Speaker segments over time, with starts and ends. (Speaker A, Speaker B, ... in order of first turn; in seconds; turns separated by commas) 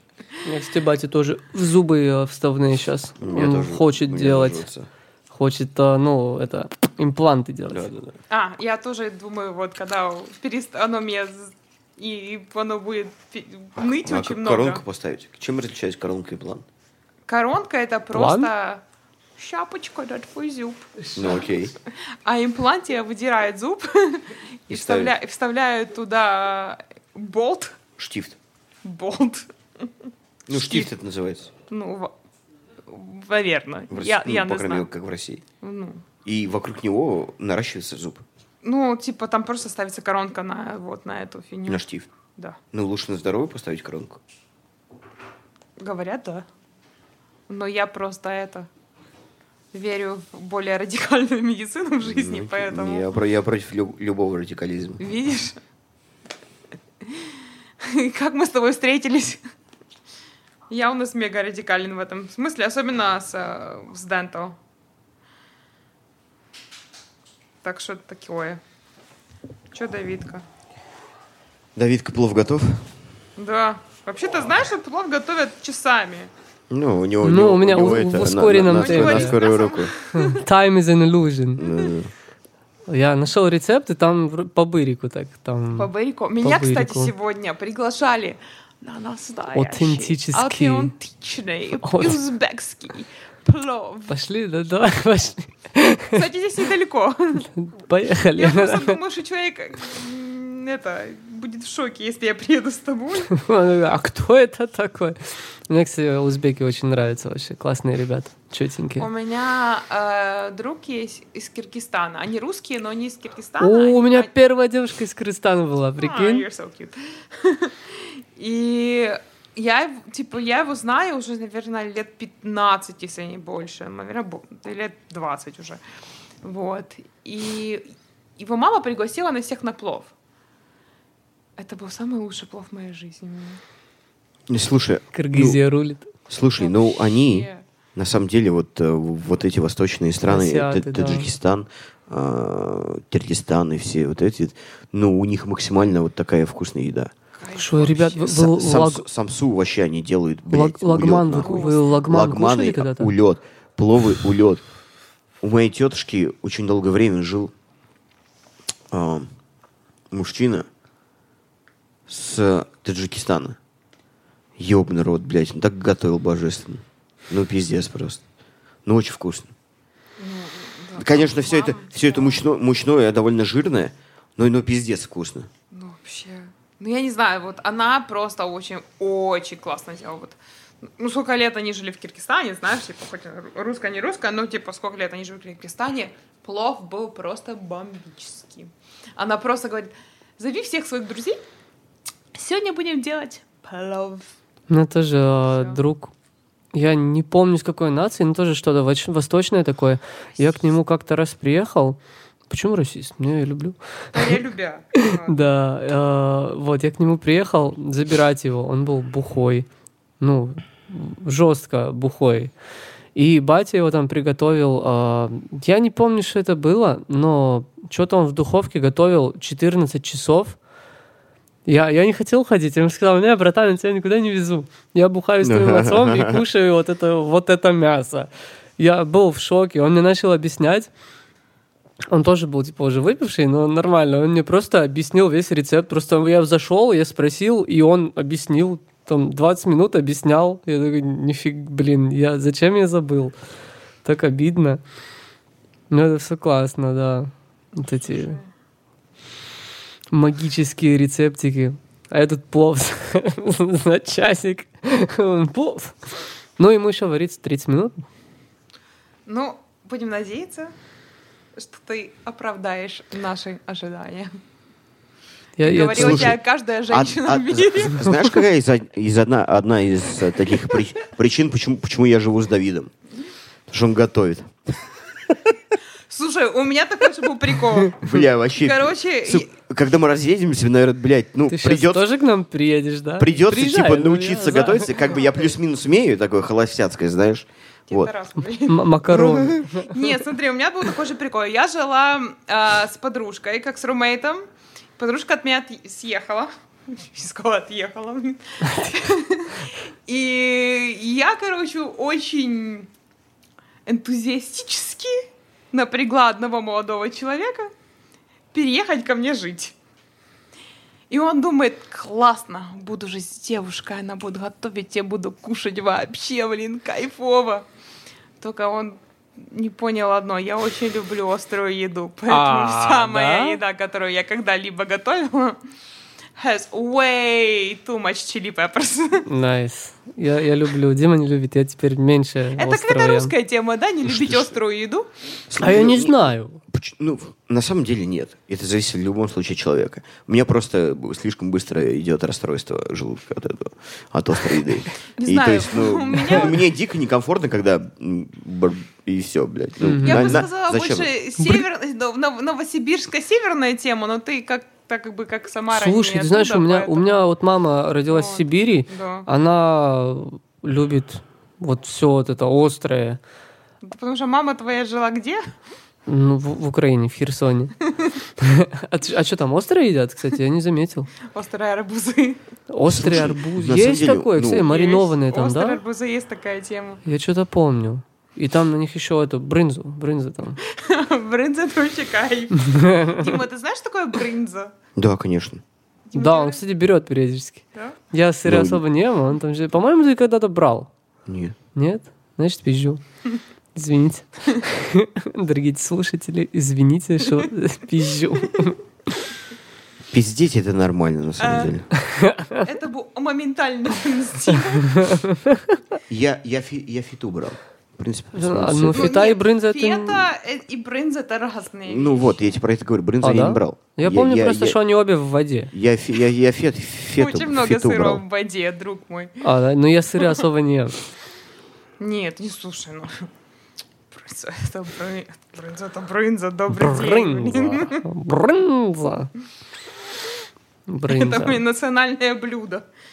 Speaker A: 0.4-4.7, Speaker B: 3.2-4.9, Speaker A: 5.3-7.9, Speaker B: 7.7-8.1, Speaker C: 8.3-14.8, Speaker B: 13.8-16.6, Speaker C: 17.3-18.8, Speaker A: 18.1-18.5, Speaker C: 19.4-20.9, Speaker A: 21.1-21.4, Speaker B: 21.1-21.7, Speaker C: 22.2-27.8, Speaker B: 24.7-25.1, Speaker B: 28.0-28.4, Speaker C: 28.8-29.5, Speaker B: 30.5-31.5, Speaker C: 30.5-30.9, Speaker C: 31.7-32.1, Speaker C: 32.9-34.9, Speaker B: 33.9-35.4, Speaker C: 35.6-36.0, Speaker B: 36.2-38.2, Speaker C: 38.6-41.8, Speaker B: 41.7-42.1, Speaker B: 42.7-44.2, Speaker C: 45.8-46.5, Speaker C: 47.5-48.7, Speaker C: 49.7-53.1, Speaker B: 52.0-55.0, Speaker C: 55.0-55.6, Speaker C: 57.0-59.4, Speaker C: 60.7-64.6, Speaker C: 67.6-68.6, Speaker C: 69.7-70.4, Speaker B: 71.8-72.9, Speaker C: 73.4-76.3, Speaker B: 76.7-79.9, Speaker A: 77.2-79.4, Speaker C: 78.7-80.4, Speaker A: 80.1-81.6, Speaker B: 81.6-82.1, Speaker A: 82.9-85.9, Speaker C: 85.7-94.2, Speaker A: 86.4-87.1, Speaker A: 89.5-90.9, Speaker A: 91.8-92.2, Speaker A: 94.1-96.2, Speaker C: 96.1-97.5, Speaker A: 97.5-99.0, Speaker C: 98.3-103.3, Speaker A: 103.3-109.1, Speaker C: 109.0-114.3, Speaker A: 113.6-116.5, Speaker C: 116.0-125.8, Speaker C: 126.4-130.1, Speaker C: 131.6-133.6, Speaker B: 134.5-135.6, Speaker A: 135.1-136.1, Speaker B: 136.3-147.1, Speaker C: 136.6-137.6, Speaker A: 140.3-141.3, Speaker C: 147.3-148.3, Speaker A: 147.5-149.0, Speaker B: 148.2-154.6, Speaker A: 150.5-153.1, Speaker C: 151.4-152.0, Speaker B: 155.4-157.5, Speaker B: 158.9-159.3, Speaker B: 160.1-160.7, Speaker B: 162.1-163.6, Speaker B: 164.6-168.2, Speaker B: 168.8-169.5, Speaker C: 170.2-172.4, Speaker B: 171.0-175.5, Speaker C: 175.7-191.4, Speaker C: 192.3-194.3, Speaker A: 194.7-196.1, Speaker C: 195.5-195.8, Speaker A: 196.7-202.0, Speaker C: 200.4-200.7, Speaker A: 202.5-204.4, Speaker C: 204.1-205.4, Speaker A: 204.9-209.7, Speaker A: 210.2-212.5, Speaker A: 213.1-220.6, Speaker A: 221.7-230.9, Speaker B: 225.4-226.4, Speaker A: 232.1-243.3, Speaker A: 244.0-244.8, Speaker A: 245.9-248.4, Speaker C: 248.1-248.4, Speaker A: 250.1-256.0, Speaker A: 256.6-258.0, Speaker C: 259.3-260.7, Speaker C: 261.6-264.3, Speaker A: 265.6-266.4, Speaker C: 265.6-268.1, Speaker B: 265.9-272.9, Speaker B: 273.7-274.7, Speaker C: 276.1-278.0, Speaker B: 277.9-282.1, Speaker C: 278.6-279.5, Speaker A: 281.5-285.0, Speaker B: 283.2-288.1, Speaker C: 287.9-294.4, Speaker A: 288.7-290.1, Speaker C: 295.0-302.9, Speaker C: 303.9-307.7, Speaker C: 308.5-309.7, Speaker C: 311.1-317.6, Speaker C: 318.4-325.6, Speaker A: 322.3-323.6, Speaker C: 326.4-329.2, Speaker A: 329.3-333.3, Speaker C: 332.6-335.1, Speaker B: 334.0-334.5, Speaker B: 335.5-351.1, Speaker A: 335.5-336.6, Speaker C: 345.2-346.6, Speaker A: 349.8-350.4, Speaker C: 350.0-357.1, Speaker A: 351.4-351.6, Speaker A: 355.7-363.2, Speaker C: 358.1-359.3, Speaker C: 363.8-365.5, Speaker A: 366.1-367.8, Speaker A: 368.4-371.1, Speaker C: 371.2-372.4, Speaker A: 372.7-375.8, Speaker B: 372.8-374.7, Speaker C: 374.6-377.0, Speaker A: 377.0-380.6, Speaker C: 380.6-384.7, Speaker A: 382.6-383.4, Speaker B: 384.9-385.6, Speaker C: 386.1-386.6, Speaker A: 386.1-390.9, Speaker B: 388.4-388.8, Speaker B: 391.3-391.6, Speaker A: 391.7-393.0, Speaker A: 393.7-398.8, Speaker B: 400.1-401.9, Speaker C: 401.4-401.7, Speaker A: 402.1-402.6, Speaker C: 402.6-405.2, Speaker A: 404.9-405.6, Speaker B: 406.1-409.1, Speaker A: 408.3-410.3, Speaker C: 408.9-412.4, Speaker B: 411.9-414.8, Speaker A: 413.2-415.7, Speaker B: 415.7-418.2, Speaker C: 417.2-419.4, Speaker A: 419.4-421.0, Speaker C: 422.0-423.3, Speaker C: 424.1-428.0, Speaker A: 426.7-429.3, Speaker A: 430.9-431.6, Speaker C: 431.1-432.9